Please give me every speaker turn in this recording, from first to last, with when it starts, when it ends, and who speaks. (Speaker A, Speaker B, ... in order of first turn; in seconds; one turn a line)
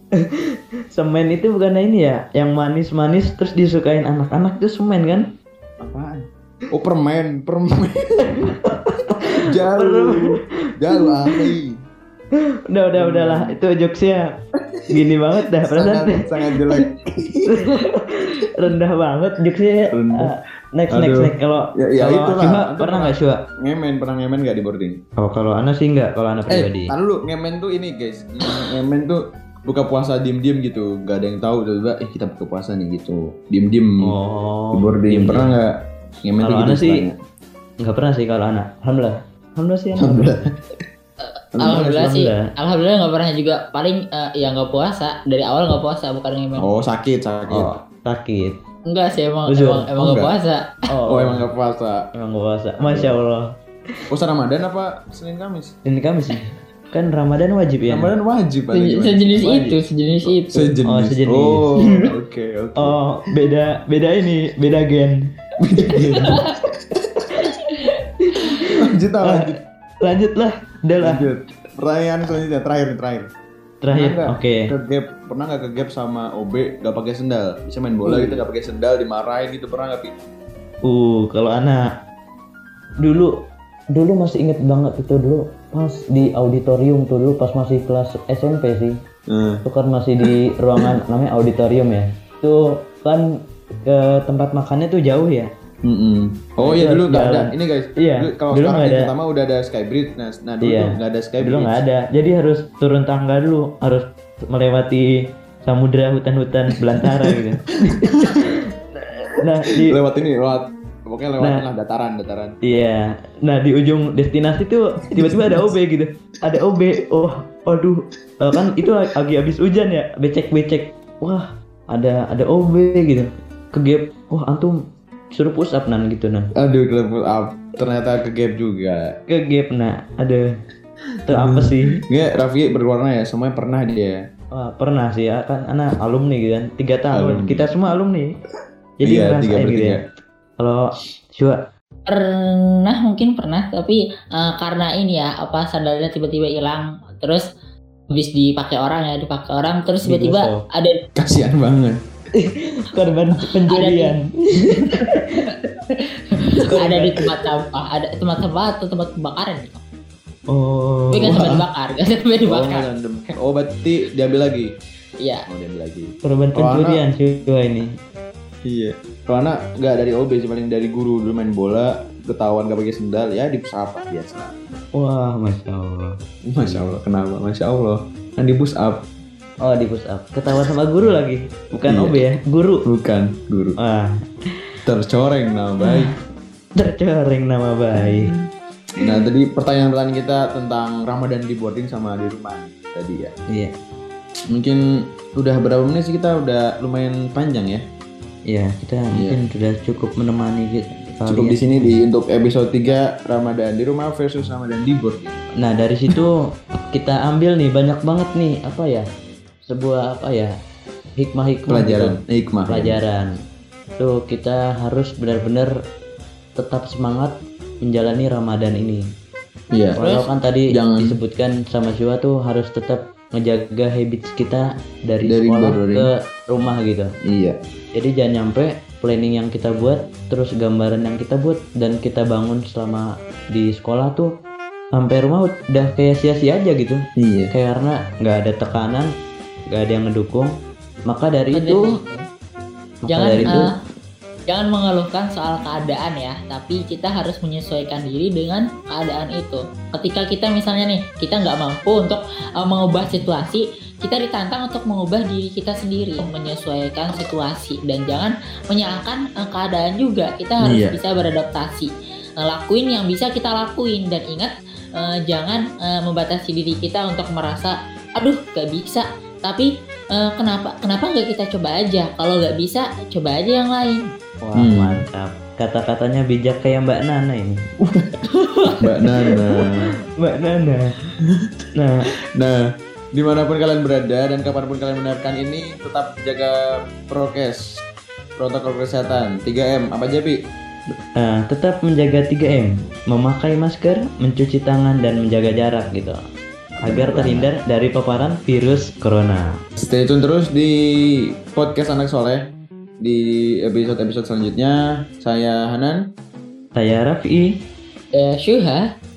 Speaker A: 0.1-5.3
Speaker B: 5.8-8.3
Speaker A: 8.4-11.5
Speaker B: 9.2-11.7
Speaker A: 12.7-14.2
Speaker B: 12.9-13.5
Speaker A: 14.9-16.8
Speaker B: 15.6-17.6
Speaker A: 17.5-23.4
Speaker B: 19.9-20.3
Speaker B: 20.9-25.0
Speaker A: 25.2-26.9
Speaker B: 26.5-34.1
Speaker A: 34.0-35.5
Speaker B: 34.7-35.7
Speaker B: 36.2-37.1
Speaker A: 36.4-37.0
Speaker A: 37.8-40.5
Speaker B: 40.0-40.5
Speaker C: 41.2-46.7
Speaker B: 41.6-41.9
Speaker A: 41.6-42.5
Speaker B: 46.6-47.7
Speaker A: 47.5-48.6
Speaker C: 48.9-50.6
Speaker A: 49.5-49.9
Speaker B: 50.0-50.3
Speaker A: 50.9-51.5
Speaker B: 51.1-52.0
Speaker A: 52.1-54.0
Speaker B: 52.8-53.1
Speaker B: 54.1-55.7
Speaker A: 55.9-58.1
Speaker B: 57.9-63.0
Speaker C: 58.7-60.7
Speaker A: 60.9-61.8
Speaker A: 62.8-65.2
Speaker B: 65.6-67.5
Speaker C: 66.1-66.5
Speaker C: 67.4-67.9
Speaker A: 68.2-69.5
Speaker B: 68.8-69.6
Speaker A: 70.0-71.2
Speaker B: 71.0-73.3
Speaker A: 73.8-74.7
Speaker B: 73.9-80.1
Speaker A: 78.0-78.4
Speaker A: 80.8-81.8
Speaker A: 83.0-83.3
Speaker A: 83.9-89.0
Speaker B: 89.3-89.6
Speaker A: 89.6-93.2
Speaker B: 90.2-90.9
Speaker A: 93.8-95.5
Speaker B: 95.8-101.7
Speaker A: 96.6-99.1
Speaker A: 100.6-108.6
Speaker B: 107.0-107.4
Speaker B: 107.9-108.5
Speaker A: 109.4-110.0
Speaker B: 109.7-112.5
Speaker A: 112.6-124.8
Speaker B: 115.1-115.7
Speaker B: 118.5-118.8
Speaker A: 125.3-126.5
Speaker B: 126.6-129.1
Speaker A: 129.3-130.4
Speaker A: 131.3-132.0
Speaker B: 131.3-134.2
Speaker A: 134.6-138.3
Speaker B: 137.1-137.7
Speaker A: 139.0-140.0
Speaker B: 139.0-140.0
Speaker C: 142.1-147.4
Speaker C: 148.1-151.0
Speaker A: 150.0-150.6
Speaker B: 151.2-152.0
Speaker A: 152.3-155.5
Speaker C: 153.7-154.1
Speaker C: 155.4-159.8
Speaker A: 156.6-157.2
Speaker A: 160.5-161.6
Speaker C: 161.1-162.8
Speaker B: 161.3-161.6
Speaker B: 162.5-164.7
Speaker B: 165.5-167.0
Speaker A: 166.2-167.9
Speaker B: 168.7-174.5
Speaker A: 174.9-177.0
Speaker B: 176.5-179.0
Speaker A: 179.6-182.8
Speaker B: 181.9-182.2
Speaker B: 182.8-183.8
Speaker A: 183.8-184.2
Speaker B: 184.8-186.1
Speaker A: 185.8-186.1
Speaker A: 186.8-188.3
Speaker B: 187.9-188.4
Speaker B: 189.0-193.3
Speaker B: 194.5-194.8
Speaker B: 195.4-197.8
Speaker A: 198.5-202.0
Speaker B: 199.1-199.4
Speaker B: 201.3-205.6
Speaker A: 205.6-206.3
Speaker A: 206.9-209.1
Speaker A: 209.6-210.5
Speaker A: 211.2-212.1
Speaker B: 211.7-213.0
Speaker A: 212.7-213.3
Speaker A: 214.0-215.7
Speaker A: 216.6-219.0
Speaker B: 219.7-220.0
Speaker A: 220.0-227.1
Speaker C: 220.0-220.3
Speaker B: 220.7-221.1
Speaker B: 225.2-226.1
Speaker B: 227.3-227.5
Speaker A: 227.9-234.3
Speaker A: 234.9-237.0
Speaker B: 237.2-237.5
Speaker A: 237.5-239.1
Speaker A: 239.7-240.5
Speaker A: 241.1-242.0
Speaker C: 241.5-242.2
Speaker C: 243.1-243.6
Speaker A: 243.1-243.7
Speaker C: 244.5-274.0
Speaker B: 260.6-260.9
Speaker A: 274.4-277.6
Speaker B: 274.6-275.0
Speaker C: 278.4-278.7
Speaker B: 278.8-279.9
Speaker A: 279.3-279.6
Speaker A: 280.2-280.9
Speaker A: 281.8-282.0
Speaker B: 283.1-287.6
Speaker B: 288.4-290.4
Speaker A: 291.1-296.2
Speaker B: 296.8-297.5
Speaker A: 296.8-299.5
Speaker B: 299.8-300.7
Speaker B: 301.5-302.4
Speaker B: 303.0-306.0
Speaker A: 306.7-307.5
Speaker C: 308.1-308.8